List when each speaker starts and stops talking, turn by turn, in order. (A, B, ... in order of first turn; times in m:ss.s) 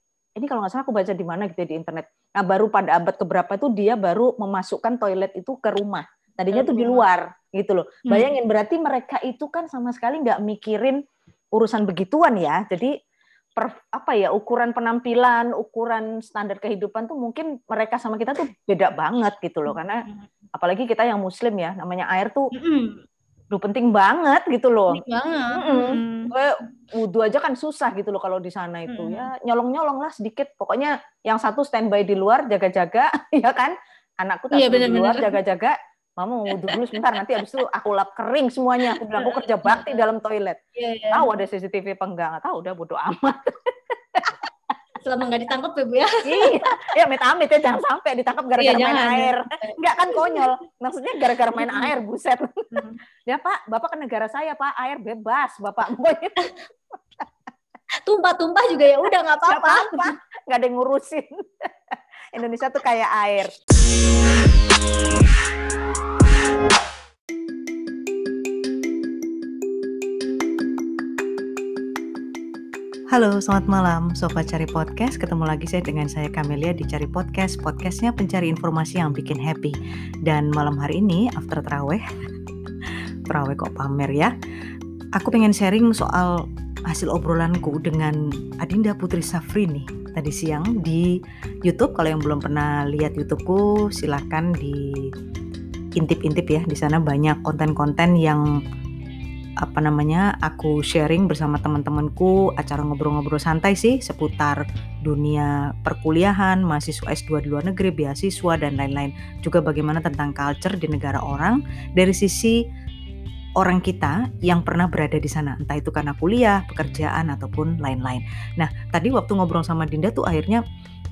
0:00.4-0:11.0 A
0:06.5-0:07.1 B
0:11.6-0:12.9 A
0:13.6-0:20.0 A
0:19.7-0:20.3 B
0:20.5-0:22.5 A
0:22.5-0:23.0 B
0:23.5-0:25.0 A
0:24.9-0:26.3 B
0:25.5-0:40.6 A
0:28.9-0:29.3 B
0:34.5-0:35.4 B
0:36.6-0:37.0 B
0:38.9-0:40.1 B
0:40.8-0:41.3 B
0:41.1-0:43.5 A
0:45.0-0:46.5 B
0:46.2-0:52.6 A
0:48.6-0:50.6 B
0:51.6-0:51.9 B
0:52.7-0:53.0 B
0:53.2-0:56.5 A
0:58.0-1:00.1 B
0:59.5-1:01.7 A
1:02.3-1:03.5 A
1:13.1-1:22.0 A
1:23.3-1:24.3 A
1:25.2-1:35.1 A
1:36.0-1:38.4 A
1:39.6-1:52.6 A
1:53.6-2:00.6 A